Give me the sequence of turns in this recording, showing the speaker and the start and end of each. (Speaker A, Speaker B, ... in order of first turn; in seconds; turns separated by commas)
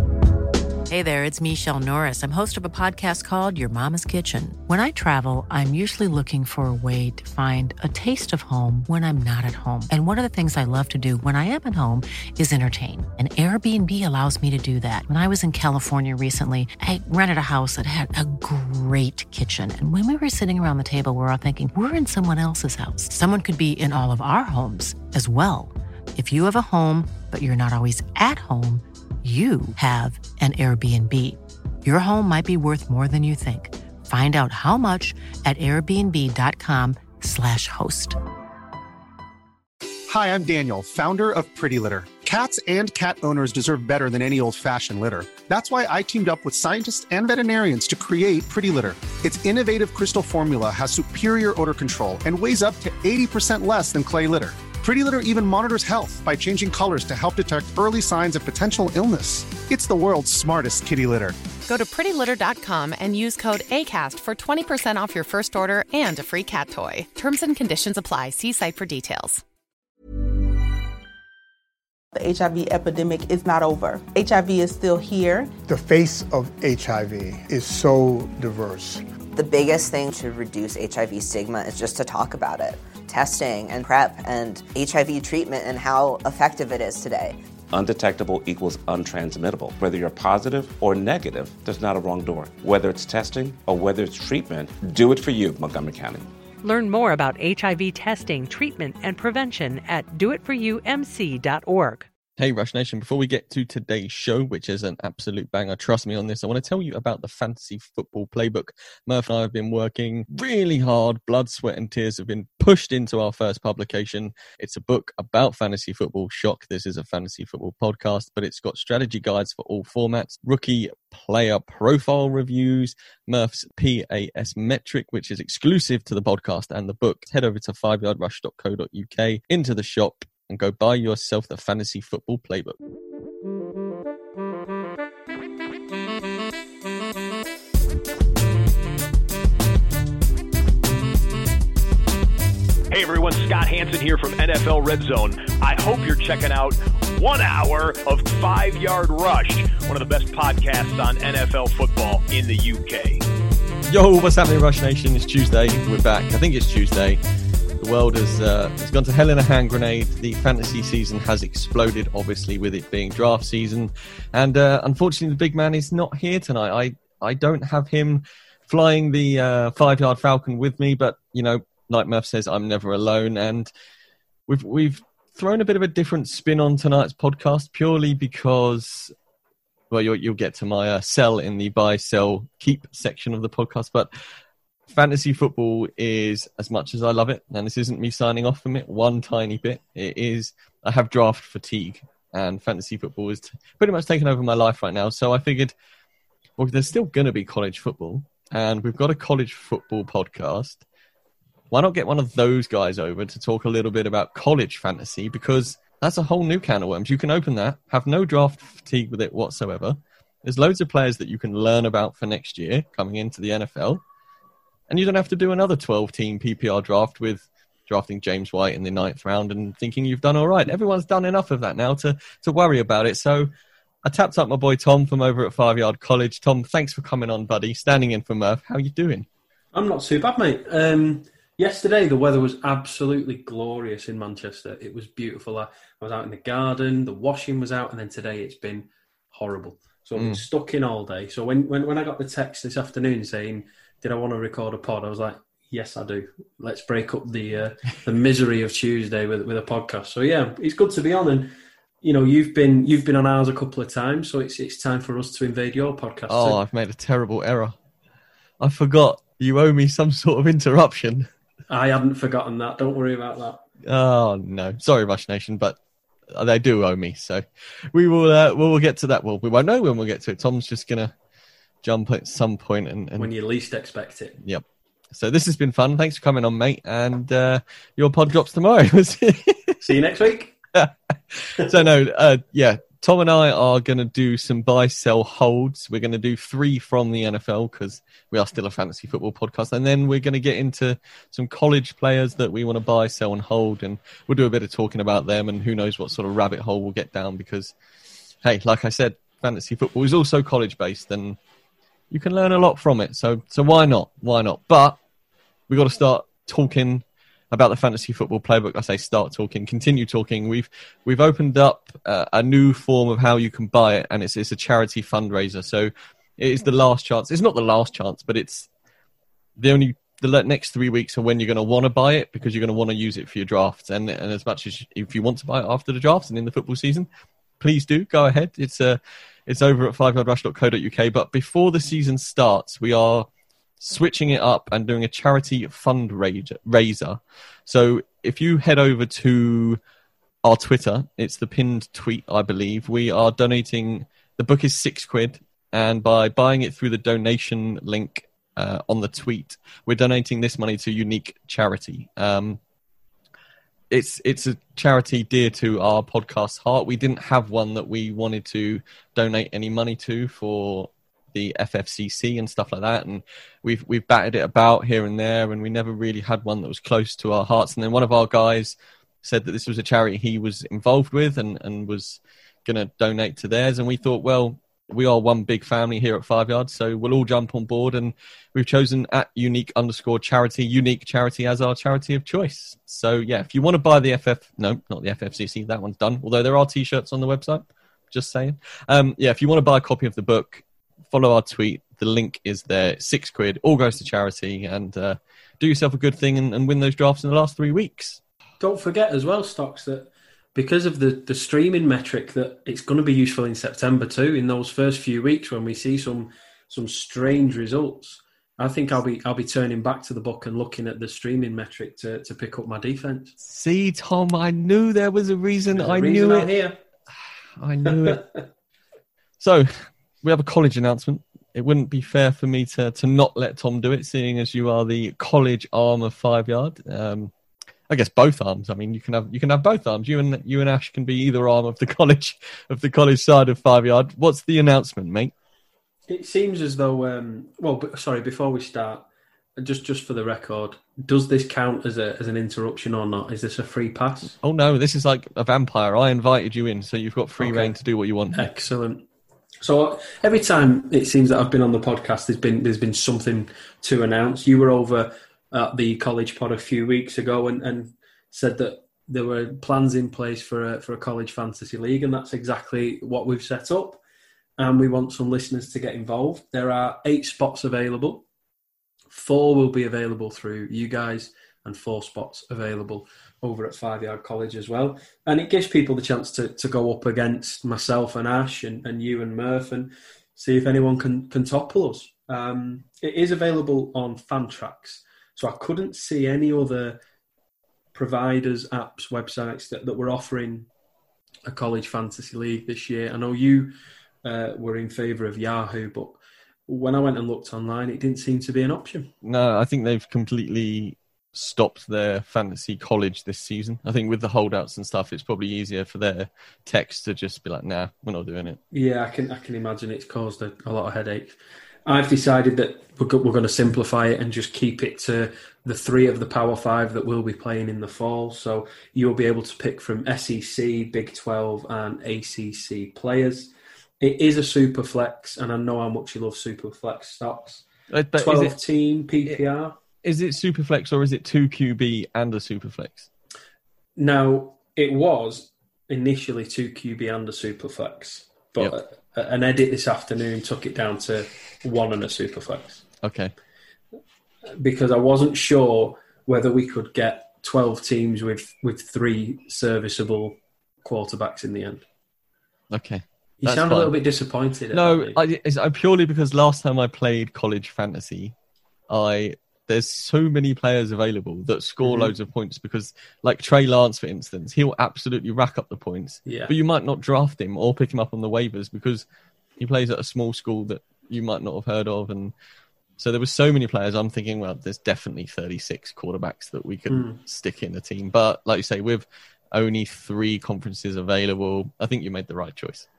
Speaker A: 0.9-38.2, Speaker B: 40.1-61.4, Speaker C: 61.7-69.4, Speaker D: 72.1-75.5, Speaker E: 75.7-79.0, Speaker F: 79.3-87.4, Speaker G: 87.7-96.3, Speaker H: 96.6-102.1, Speaker I: 102.4-132.8, Speaker J: 142.9-153.2, Speaker I: 153.9-157.2, Speaker I: 157.8-173.7, Speaker I: 174.5-179.1, Speaker I: 179.9-184.1, Speaker I: 184.9-195.8, Speaker I: 196.6-200.8, Speaker I: 201.7-214.0, Speaker I: 214.9-223.5, Speaker I: 224.0-229.3, Speaker K: 229.7-251.5, Speaker I: 240.2-240.4, Speaker K: 252.0-256.6, Speaker I: 256.3-257.8, Speaker I: 258.6-261.3, Speaker K: 261.7-263.6, Speaker I: 263.9-265.8, Speaker I: 266.3-271.1, Speaker I: 271.8-273.3, Speaker K: 273.2-274.4, Speaker I: 274.4-279.8, Speaker K: 279.8-280.6, Speaker I: 280.7-297.7, Speaker I: 298.4-301.4, Speaker I: 302.1-305.0, Speaker I: 305.7-318.7, Speaker I: 319.6-327.1, Speaker I: 327.6-333.3, Speaker I: 333.8-339.8, Speaker I: 340.4-352.6, Speaker I: 353.9-398.2, Speaker K: 398.6-413.4, Speaker I: 413.4-416.6, Speaker K: 415.7-416.8, Speaker I: 417.6-418.3, Speaker I: 419.4-427.3, Speaker I: 427.9-435.3, Speaker K: 436.1-439.1, Speaker K: 439.6-444.3, Speaker I: 444.4-448.5, Speaker K: 447.4-447.7, Speaker K: 448.3-449.1, Speaker K: 449.6-464.0, Speaker K: 464.6-468.2, Speaker K: 469.1-487.0, Speaker K: 487.9-490.7, Speaker K: 491.5-493.7, Speaker K: 494.2-499.1, Speaker I: 499.2-508.6, Speaker K: 508.7-527.7, Speaker I: 527.9-528.6, Speaker K: 528.2-529.7, Speaker I: 530.0-533.1, Speaker K: 534.0-542.8, Speaker I: 543.0-543.3, Speaker K: 544.5-551.8, Speaker I: 552.7-553.9, Speaker K: 553.4-555.2, Speaker I: 554.7-558.3, Speaker I: 558.9-569.1, Speaker K: 561.8-562.1, Speaker K: 566.3-566.5, Speaker I: 569.6-572.3, Speaker I: 573.0-582.9, Speaker K: 576.9-577.2